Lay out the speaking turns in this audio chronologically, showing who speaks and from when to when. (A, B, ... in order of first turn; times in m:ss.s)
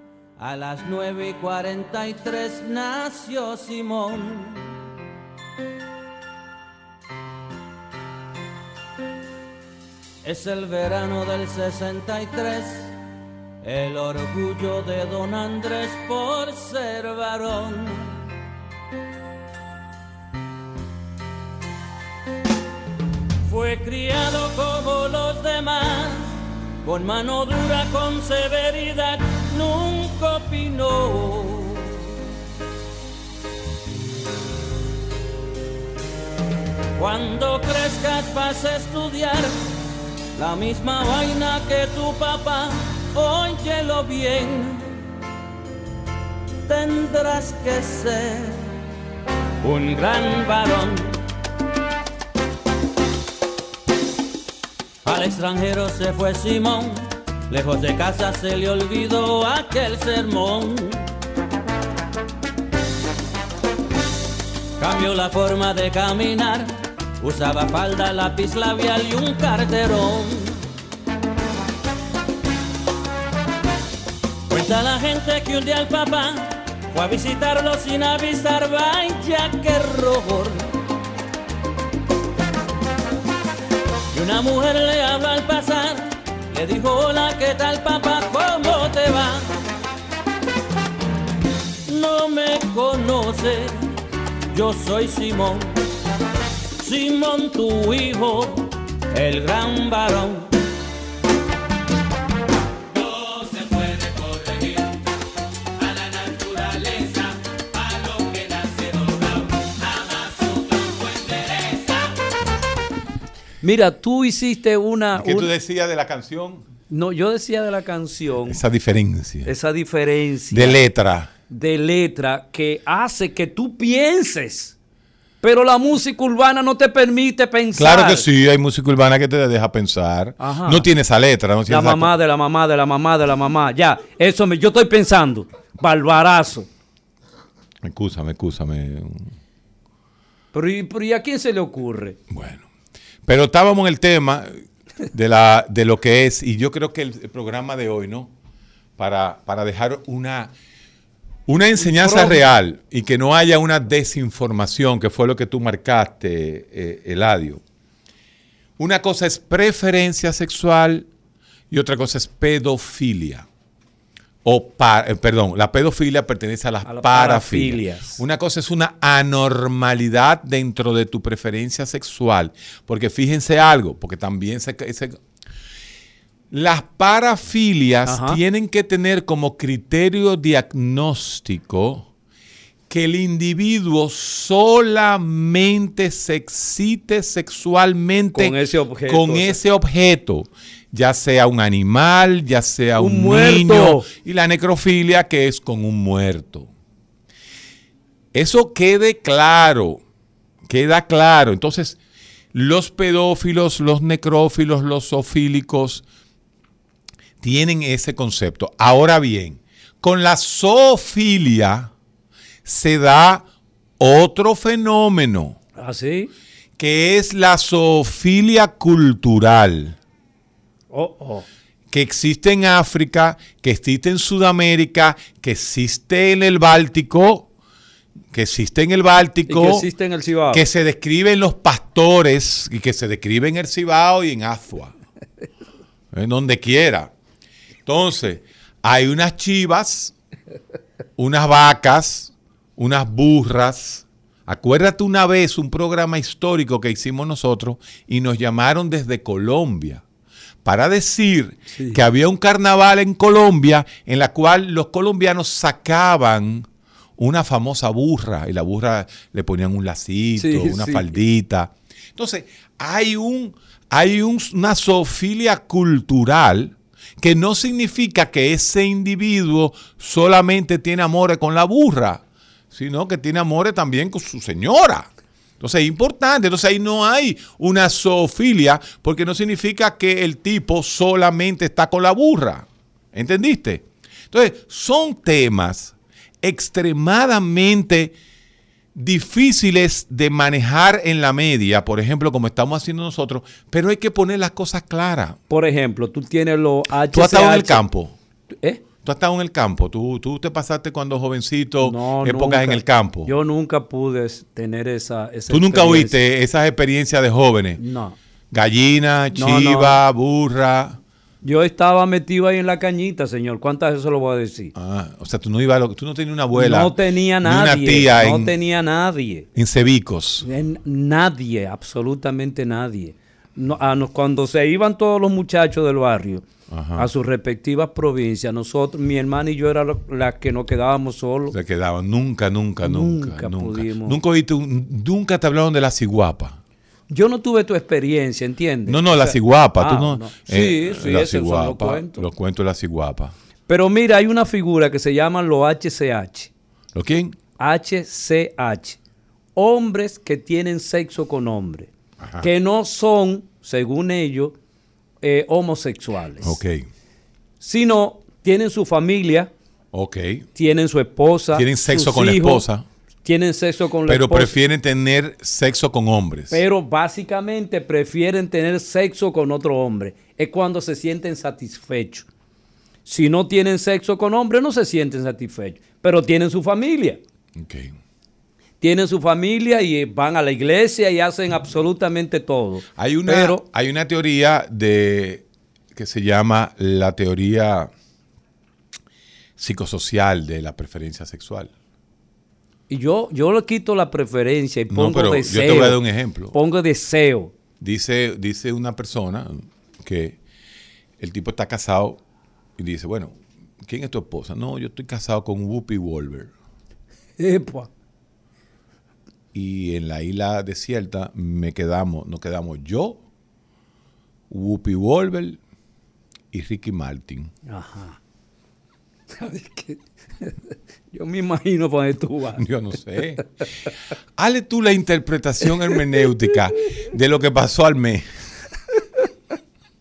0:00.4-0:04.8 A
0:10.2-0:12.9 A
0:13.6-0:18.2 A
0:23.5-0:26.3 A
0:26.8-0:32.1 A
0:37.0-0:39.5 A
0:40.4-0:45.0 A
0:46.6-0:48.7 A
0:49.6-0:51.2 A
0:55.0-1:01.1 A
1:04.8-1:10.6 A
1:14.5-1:20.7 A
1:24.1-1:29.5 A
1:31.9-1:33.8 A
1:34.5-1:35.8 A
1:36.8-1:40.5 A
1:43.0-1:44.8 A
1:45.8-1:52.0 A
1:53.6-1:55.5 B
1:55.1-1:56.6 C
1:56.9-1:58.6 B
1:58.5-1:59.5 C
1:59.5-2:00.8 B
2:00.5-2:01.3 C
2:01.5-2:04.8 B
2:05.4-2:08.3 B
2:07.8-2:12.1 C
2:10.4-2:10.9 B
2:11.7-2:16.7 B
2:17.8-2:19.3 C
2:20.5-2:22.2 B
2:22.3-2:22.7 C
2:23.2-2:28.3 C
2:29.0-2:30.5 C
2:31.5-2:37.6 C
2:31.8-2:32.4 B
2:38.8-2:41.1 C
2:41.7-2:43.5 C
2:44.4-2:55.2 C
2:46.8-2:48.2 B
2:56.5-3:02.1 C
2:58.0-2:58.4 B
3:02.9-3:16.7 C
3:08.3-3:09.6 B
3:13.0-3:14.1 B
3:18.3-3:20.0 C
3:20.7-3:22.0 C
3:22.5-3:26.0 C
3:27.4-3:31.9 C
3:32.6-3:33.5 C
3:34.0-3:35.6 C
3:35.8-3:36.3 B
3:36.8-3:40.0 C
3:40.9-3:41.5 B
3:41.9-3:47.5 C
3:48.3-3:49.9 C
3:49.5-3:50.7 B
3:50.5-3:55.0 C
3:56.1-3:57.1 C
3:57.8-4:00.1 C
4:01.2-4:10.0 C
4:10.6-4:48.2 C
4:11.7-4:12.0 B
4:20.4-4:21.1 B
4:49.0-4:55.4 C
4:55.5-4:57.8 B
4:57.0-4:58.2 C
4:59.0-5:03.3 C
5:01.8-5:06.2 B
5:05.5-5:07.8 C
5:07.8-5:08.2 B
5:08.5-5:11.0 C
5:09.3-5:10.0 B
5:11.4-5:14.7 B
5:14.7-5:18.6 C
5:16.5-5:19.5 B
5:19.6-5:20.4 C
5:20.4-5:26.4 B
5:26.7-5:27.1 C
5:27.0-5:31.6 B
5:31.5-5:36.6 C
5:32.8-5:34.2 B
5:37.1-5:42.3 B
5:38.9-5:43.4 C
5:43.7-5:46.5 B
5:47.0-5:47.4 C
5:47.6-5:49.0 B
5:49.6-5:54.6 B
5:52.2-5:52.5 C
5:55.2-5:56.6 B
5:56.4-5:56.9 C
5:57.6-5:59.5 B
5:59.9-6:00.5 C
6:00.6-6:02.6 B
6:01.5-6:02.9 C
6:03.2-6:04.6 B
6:04.1-6:06.6 C
6:06.5-6:12.3 B
6:13.1-6:17.2 B
6:17.6-6:18.0 C
6:18.8-6:23.6 B
6:23.0-6:27.9 C
6:29.6-6:31.7 C
6:32.9-6:36.0 B
6:34.9-6:36.6 C
6:36.5-6:37.5 B
6:37.8-6:40.4 C
6:41.2-6:42.2 C
6:42.8-6:46.5 C
6:47.4-6:47.9 B
6:49.5-6:53.2 C
6:54.5-6:55.6 C
6:56.5-6:57.5 C
6:57.7-6:58.2 B
6:59.4-7:02.6 B
7:02.6-7:03.4 C
7:04.4-7:08.3 C